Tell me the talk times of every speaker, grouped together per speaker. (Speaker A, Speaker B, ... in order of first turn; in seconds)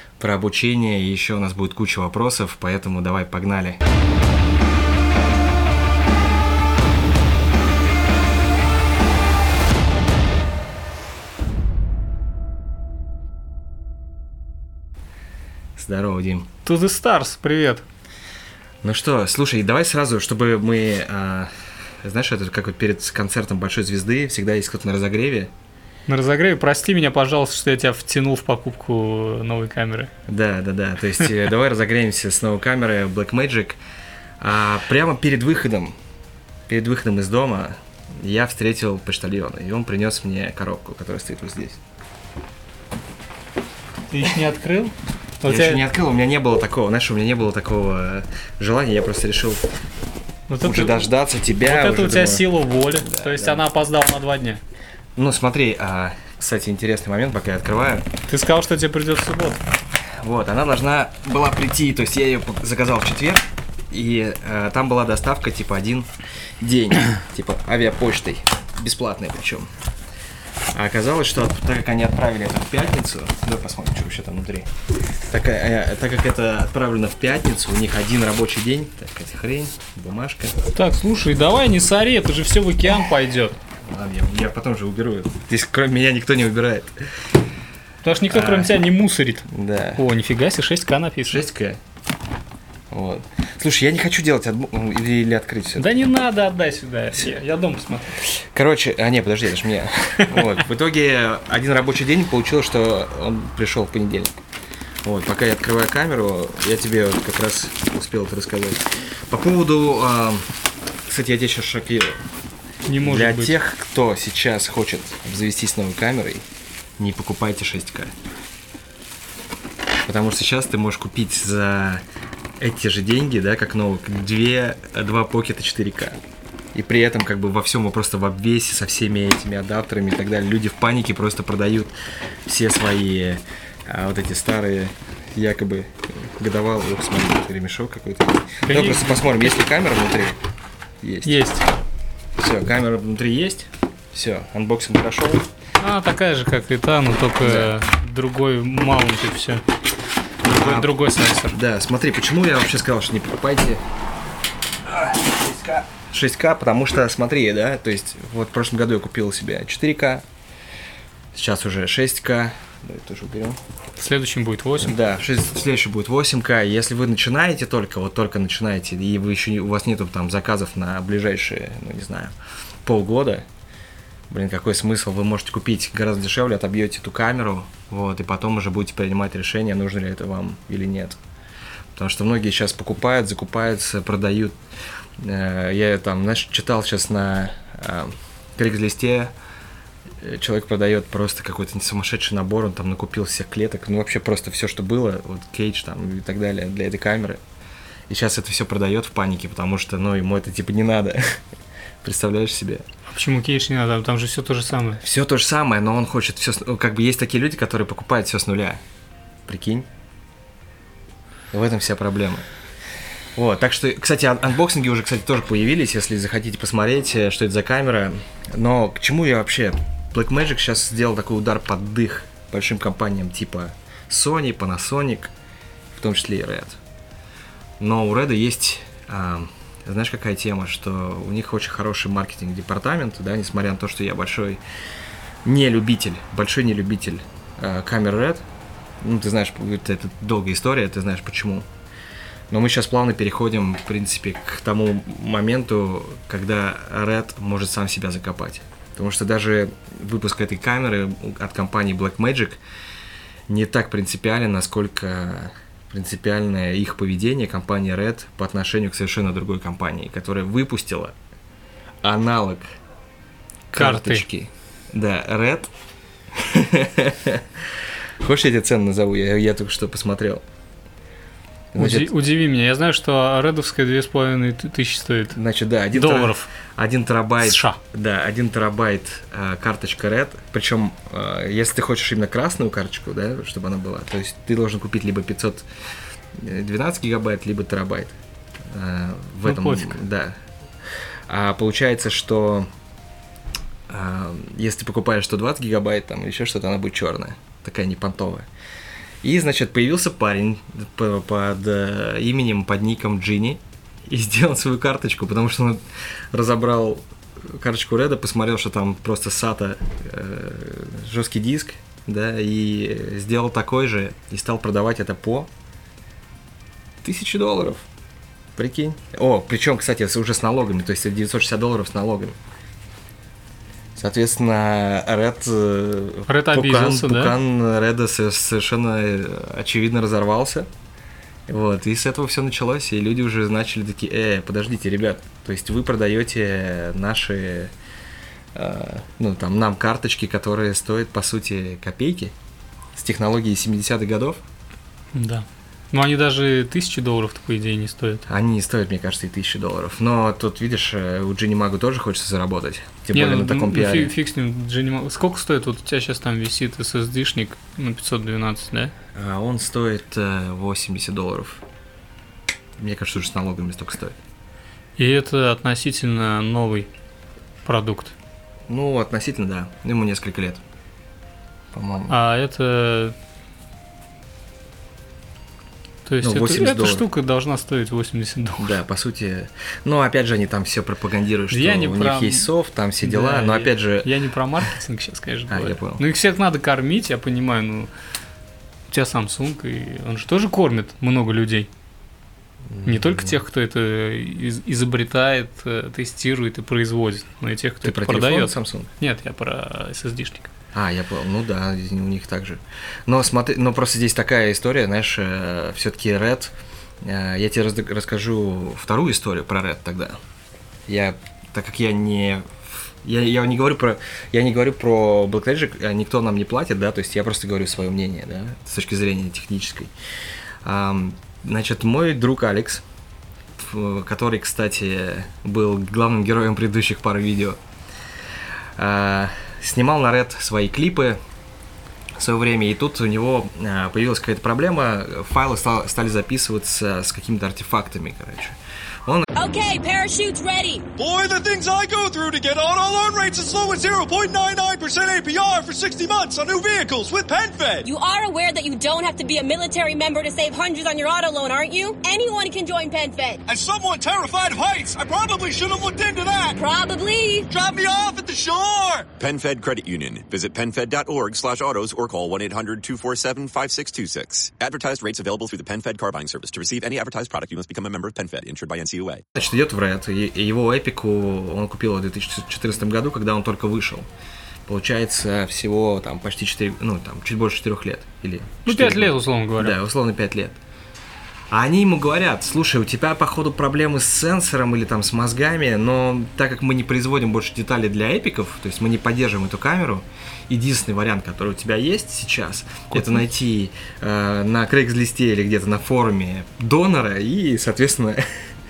Speaker A: 0.2-3.8, 15.8-16.5, 18.8-21.5, 22.0-25.5, 30.3-33.8, 34.4-36.0, 36.7-41.8, 45.5-49.7, 50.6-53.6, 55.2-58.1, 60.2-69.7, 70.7-74.7, 75.3-80.6, 83.8-87.0, 88.3-88.8, 89.5-90.0, 91.3-91.8, 92.9-95.9, 98.2-104.4, 105.0-110.5, 111.1-112.2, 113.0-116.4, 117.0-118.1, 120.1-122.0, 122.6-126.2, 126.8-131.9, 132.5-140.4, 141.0-141.5, 142.4-145.5, 147.4-147.8, 150.5-151.0, 151.5-153.8, 154.9-160.2, 161.3-163.6, 164.8-172.3, 172.8-173.5, 174.3-181.2, 182.0-184.6, 185.2-189.3, 190.2-197.4, 198.1-201.4, 202.0-202.8, 205.0-208.8, 209.5-209.9, 211.5-212.4, 213.4-225.3, 225.9-226.8, 227.8-234.6, 235.4-238.4, 239.0-241.7, 242.5-252.6, 253.5-261.1, 262.0-262.7, 263.8-265.7, 266.4-267.6, 268.2-270.4, 271.7-272.1, 275.3-285.6, 286.3-288.1, 288.7-290.4, 291.3-292.7, 293.9-298.5, 299.2-315.5, 317.0-317.9, 318.6-322.4, 324.0-330.7, 331.5-337.7, 338.5-342.3, 343.0-344.4, 348.3-354.1, 359.1-361.6, 362.8-364.2, 368.7-370.6, 371.7-372.2, 376.2-377.1, 378.6-384.1, 385.5-386.0, 392.7-393.4, 397.8-398.9, 400.7-410.2, 410.9-419.9, 420.6-422.8, 423.6-427.6, 428.8-431.2, 432.2-439.3, 469.4-474.1, 474.7-480.6, 481.5-498.2
Speaker B: 16.6-17.9, 26.1-30.1, 44.1-45.8, 50.5-54.6, 58.3-59.6, 80.7-83.6, 88.0-91.4, 95.8-98.2, 112.9-113.6, 138.7-139.2, 141.2-141.7, 145.8-149.7, 150.5-151.6, 164.0-165.0, 203.1-205.0, 263.7-264.2, 271.8-275.4, 275.9-276.5, 277.4-277.8, 289.4-290.0, 326.3-327.4, 345.1-348.3, 353.1-358.9, 365.0-366.9, 367.6-368.1, 372.1-373.1, 376.1-378.8, 381.5-382.5, 383.0-387.9, 388.9-391.7, 392.9-400.5, 478.7-479.8, 492.9-493.2
Speaker C: 439.4-440.9, 447.9-453.4, 456.6-457.5
Speaker D: 441.0-447.9, 453.5-456.6, 457.5-459.1
Speaker E: 459.2-469.2